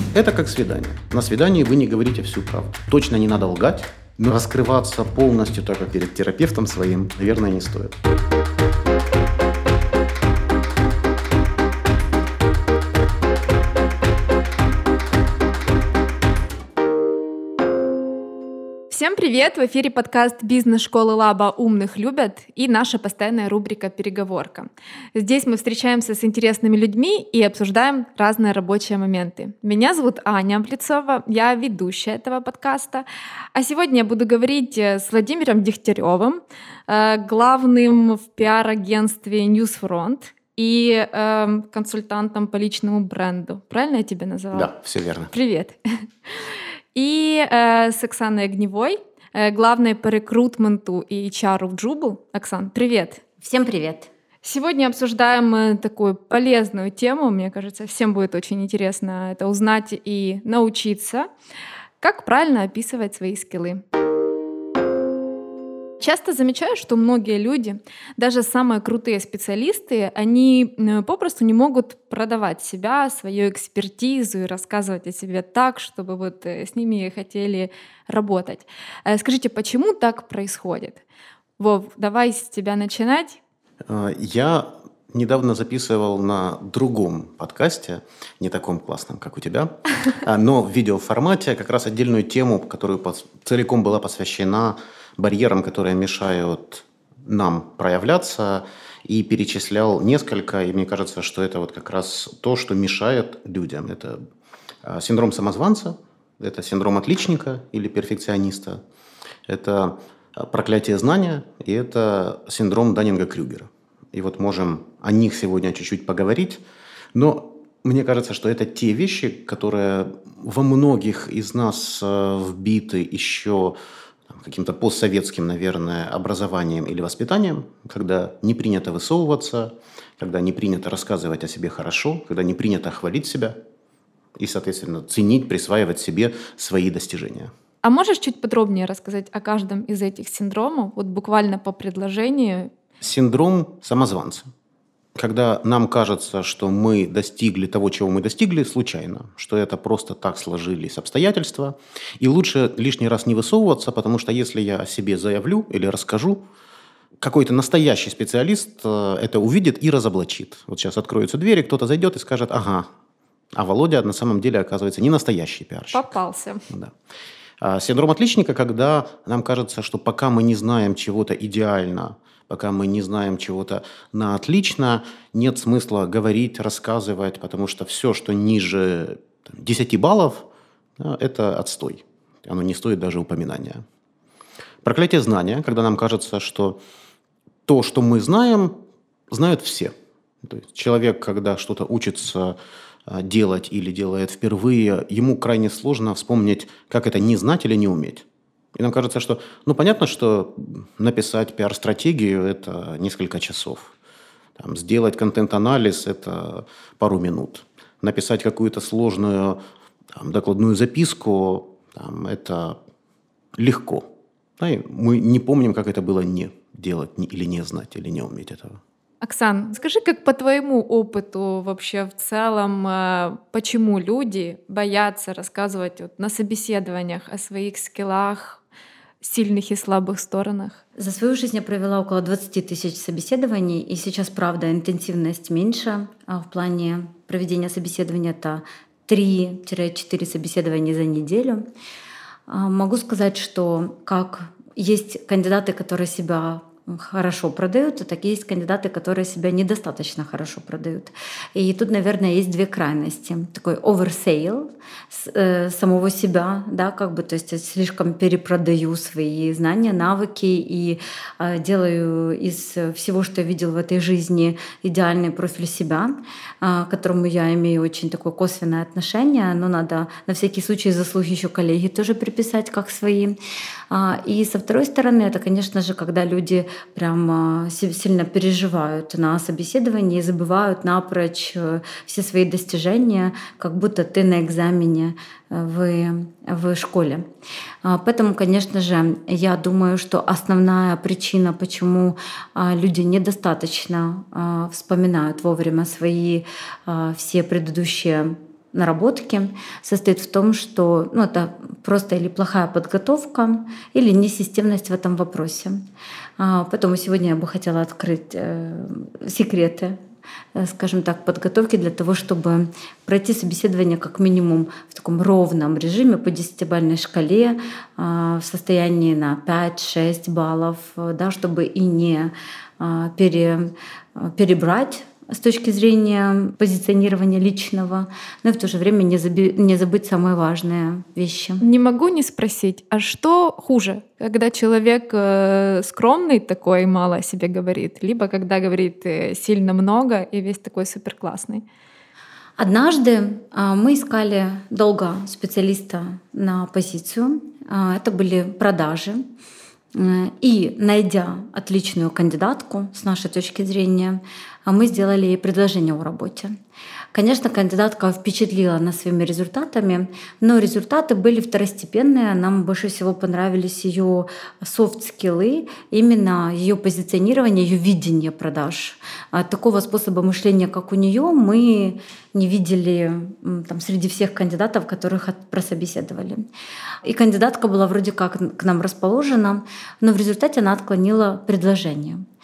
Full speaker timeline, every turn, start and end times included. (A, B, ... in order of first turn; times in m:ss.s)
0:00.1-0:08.0 A
0:18.9-0:44.7 B
0:44.5-0:45.3 A
0:45.3-0:53.2 B
0:53.4-0:54.1 C
0:54.4-1:01.3 B
1:02.0-1:03.8 B
1:06.0-1:21.0 B
1:21.6-1:23.4 B
1:23.9-1:44.2 A
1:44.8-1:48.8 A
1:49.5-1:56.6 A
1:57.1-2:03.8 A
2:04.3-2:13.6 A
2:14.4-2:17.5 A
2:17.8-2:22.7 B
2:23.0-2:24.5 A
2:25.2-2:36.4 A
2:37.2-2:42.9 A
2:43.5-2:46.1 A
2:45.9-2:46.6 B
2:47.6-3:00.5 A
3:01.0-3:03.8 A
3:04.8-3:06.8 A
3:07.7-3:08.8 A
3:09.3-3:12.6 A
3:13.1-3:23.9 A
3:24.6-3:29.6 A
3:30.2-3:32.8 A
3:33.6-3:34.1 A
3:34.6-3:38.8 A
3:39.2-3:48.6 B
3:49.2-3:50.8 B
3:51.0-4:01.6 C
4:02.5-4:33.4 C
4:33.9-4:47.2 C
4:47.8-5:05.8 C
5:06.4-5:10.0 C
5:10.6-5:31.6 C
5:31.6-5:41.6 B
5:42.6-5:49.2 C
5:50.0-5:56.5 C
5:57.1-6:16.4 C
6:17.0-6:22.2 C